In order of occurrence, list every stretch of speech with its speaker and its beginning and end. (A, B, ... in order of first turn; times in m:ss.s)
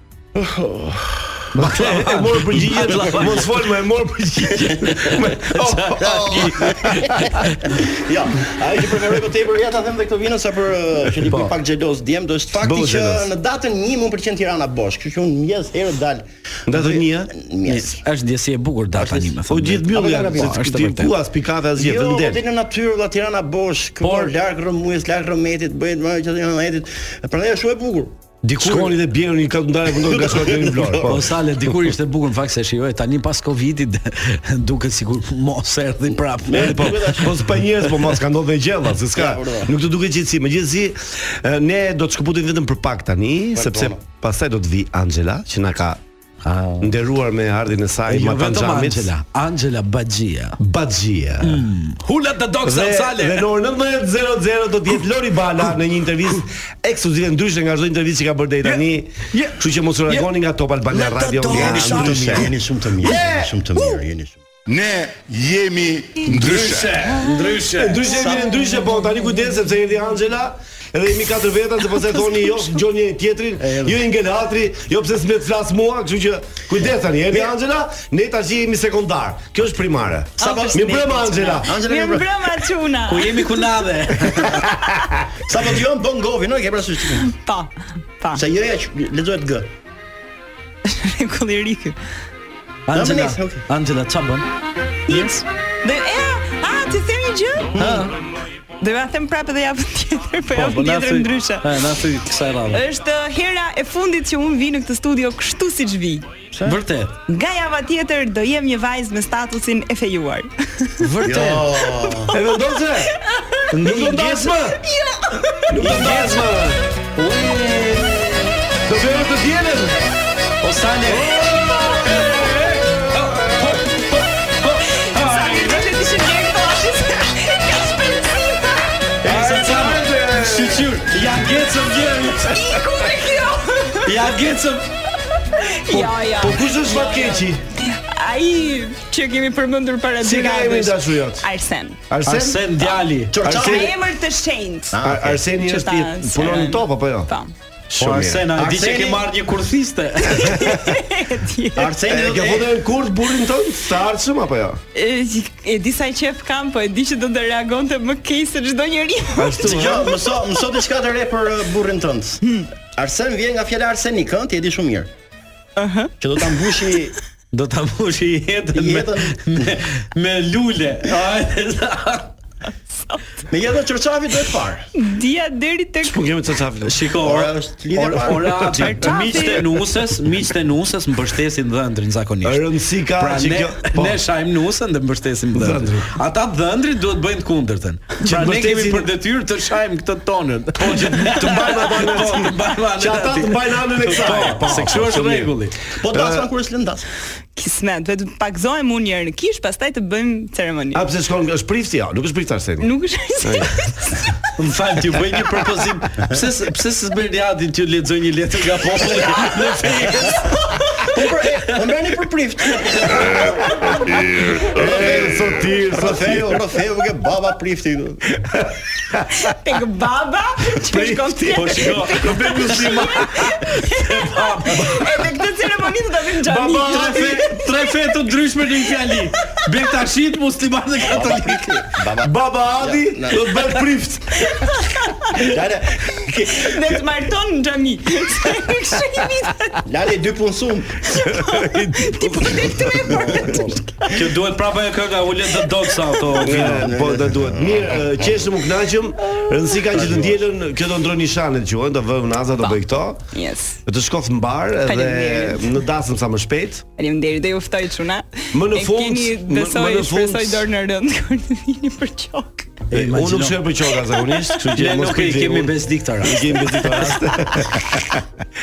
0:00.4-0:01.4 A
0:01.5-0:03.6 B
0:01.5-0:07.0 C
0:04.8-0:07.8 B
0:05.6-0:18.0 A
0:12.6-0:13.3 C
0:16.7-0:17.3 C
0:17.6-0:21.1 B
0:19.0-0:19.4 A
0:19.5-0:22.4 C
0:19.9-0:20.6 A
0:21.8-0:28.2 A
0:24.0-0:24.3 B
0:28.4-0:29.0 B
0:28.6-0:31.2 C
0:30.0-0:31.2 A
0:31.0-0:37.3 B
0:36.4-0:37.4 A
0:36.5-0:46.0 C
0:39.1-0:39.7 A
0:43.5-0:44.0 A
0:46.4-0:46.9 B
0:46.8-0:49.1 C
0:48.1-0:50.6 B
0:50.6-0:51.6 C
0:51.4-0:53.5 B
0:52.6-1:03.5 C
0:58.6-1:00.3 B
1:00.9-1:02.5 B
1:01.5-1:04.4 A
1:04.7-1:07.2 D
1:06.3-1:08.1 B
1:07.8-1:21.8 C
1:08.1-1:08.6 A
1:13.6-1:14.0 B
1:20.4-1:23.8 E
1:20.4-1:22.3 A
1:23.1-1:24.6 B
1:25.5-1:27.3 A
1:27.3-1:28.4 E
1:28.4-1:29.7 A
1:30.8-1:32.0 E
1:32.9-1:34.5 B
1:32.9-1:33.6 A
1:35.1-1:35.3 B
1:35.1-1:37.8 E
1:37.8-1:38.1 A
1:37.8-1:38.0 B
1:38.8-1:41.7 E
1:40.5-1:42.8 B
1:42.7-1:46.2 E
1:46.5-1:46.8 A
1:46.6-1:47.2 B
1:47.3-1:50.9 E
1:51.0-1:51.7 B
1:51.2-1:52.3 A
1:52.3-1:53.1 C
1:53.3-1:53.5 E
1:53.7-1:54.6 B
1:53.8-1:54.8 C
1:54.8-1:55.6 E
1:55.7-1:56.8 C
1:55.8-1:56.4 B
1:57.2-1:58.5 B
1:58.9-2:00.0 C
2:00.6-2:01.4 B
2:01.4-2:02.1 E
2:02.0-2:05.9 B
2:05.0-2:09.1 E
2:09.2-2:11.0 C
2:09.2-2:12.6 B
2:12.5-2:14.2 E
2:14.0-2:14.9 B
2:15.5-2:22.0 E
2:15.9-2:17.6 C
2:20.2-2:21.5 C
2:22.1-2:22.6 C
2:22.2-2:23.4 B
2:23.3-2:24.0 A
2:23.4-2:23.9 C
2:23.5-2:25.0 E
2:24.9-2:25.4 A
2:25.0-2:27.3 C
2:25.6-2:27.5 E
2:27.9-2:28.5 C
2:28.0-2:30.5 B
2:28.5-2:29.3 A
2:30.4-2:31.9 E
2:30.4-2:30.8 C
2:31.8-2:32.7 A
2:32.0-2:34.8 C
2:34.9-2:40.0 E
2:39.4-2:40.2 C
2:39.6-2:42.4 A
2:42.9-2:45.1 A
2:45.8-2:46.1 E
2:46.2-2:47.2 A
2:47.5-2:52.3 B
2:48.7-2:49.7 A
2:53.0-2:53.2 E
2:53.5-2:54.9 A
2:55.0-2:56.2 E
2:56.0-2:57.0 C
2:56.8-3:15.8 B
2:57.2-2:58.7 A
2:58.8-2:59.7 E
3:02.4-3:04.2 C
3:05.5-3:06.1 C
3:08.2-3:09.1 C
3:10.8-3:15.6 C
3:16.0-3:17.0 A
3:16.1-3:16.5 C
3:17.6-3:21.0 E
3:20.9-3:23.7 C
3:22.8-3:24.3 E
3:24.6-3:30.6 B
3:31.1-3:33.9 A
3:34.6-3:36.6 C
3:34.7-3:38.2 A
3:38.5-3:39.4 C
3:39.4-3:47.7 E
3:40.8-3:43.6 C
3:41.5-3:42.8 B
3:43.7-3:45.1 B
3:46.4-3:47.5 C
3:46.7-3:51.8 B
3:51.0-3:53.4 A
3:52.2-3:54.5 C
3:54.5-3:55.2 E
3:55.4-3:56.8 A
3:56.6-3:59.8 E
3:59.8-4:01.1 A
4:01.1-4:03.2 E
4:01.3-4:03.4 C
4:03.1-4:06.9 B
4:03.4-4:03.6 A
4:06.4-4:08.5 A
4:06.4-4:13.2 C
4:09.9-4:10.4 A
4:12.6-4:13.8 E
4:13.8-4:16.8 C
4:14.8-4:15.8 E
4:17.0-4:22.7 E
4:18.5-4:20.7 C
4:22.9-4:23.6 B
4:22.9-4:28.2 C
4:24.1-4:24.4 E
4:24.7-4:26.6 B